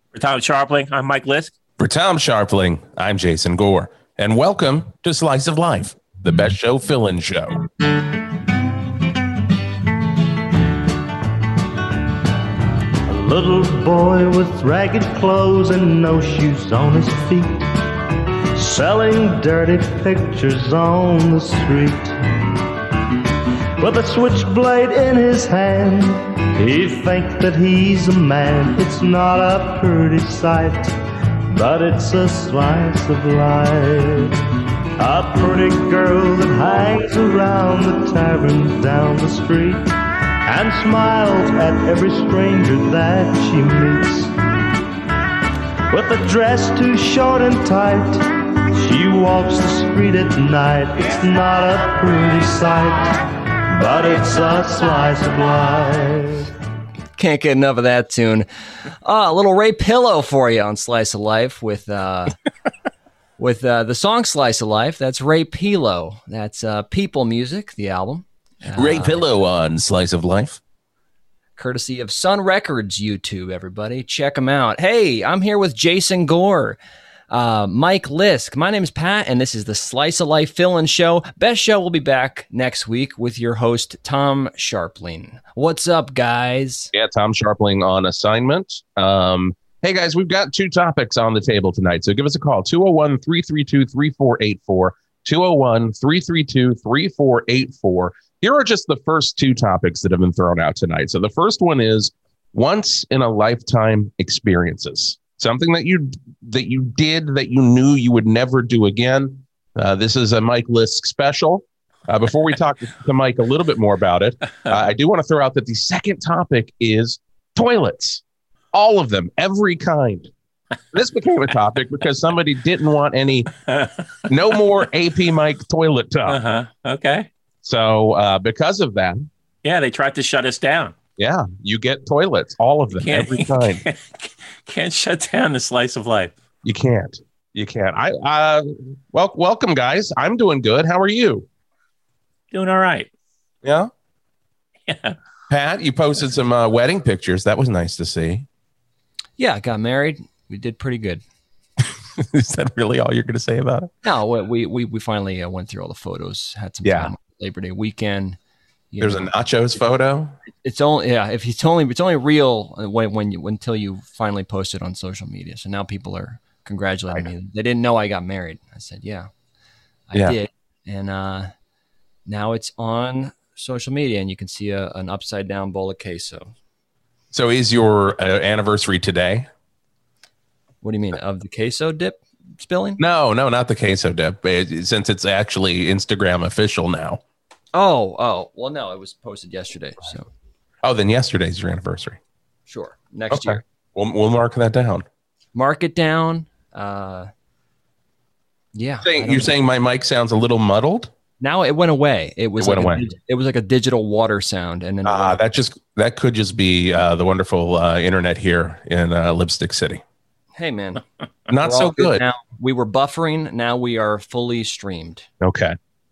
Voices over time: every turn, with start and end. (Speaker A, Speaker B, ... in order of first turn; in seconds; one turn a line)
Speaker A: 0.1-1.5
Speaker B: 1.8-7.6
Speaker C: 13.1-17.7
Speaker C: 18.5-22.2
Speaker C: 23.8-30.9
Speaker C: 31.5-34.4
Speaker C: 35.0-39.9
Speaker C: 40.5-44.3
Speaker C: 45.9-56.5
Speaker D: 57.2-58.5
Speaker D: 59.0-62.3
Speaker D: 63.4-69.2
Speaker B: 68.8-70.6
Speaker D: 71.6-76.8
Speaker D: 77.3-86.9
Speaker B: 86.9-118.2
Speaker B: 118.7-120.3
Speaker B: 120.9-123.5
Speaker B: 124.3-126.4
Speaker A: 126.2-127.3
Speaker B: 127.6-129.3
Speaker A: 129.6-130.9
Speaker B: 131.2-133.8
Speaker A: 132.9-136.3
Speaker B: 136.6-141.4
Speaker A: 142.5-143.1
Speaker B: 143.6-143.9
Speaker A: 144.9-145.2
Speaker B: 145.5-148.4
Speaker D: 149.4-151.2
Speaker B: 151.8-153.9
Speaker D: 154.0-158.4
Speaker B: 156.8-157.1
Speaker D: 158.9-159.3
Speaker B: 159.0-160.3
Speaker D: 160.5-169.3
Speaker D: 170.1-171.5
Speaker D: 172.3-176.5
Speaker B: 177.3-179.5
Speaker D: 180.8-183.0
Speaker B: 183.0-187.2
Speaker D: 187.7-190.3
Speaker B: 190.8-192.2
Speaker D: 192.7-193.6
Speaker B: 193.3-195.0
Speaker D: 195.5-197.3
Speaker D: 198.7-199.5
Speaker B: 199.0-201.1
Speaker D: 201.4-205.4
Speaker B: 202.6-203.1
Speaker B: 205.0-210.0
Speaker D: 210.6-215.3
Speaker B: 211.5-212.2
Speaker B: 215.4-215.8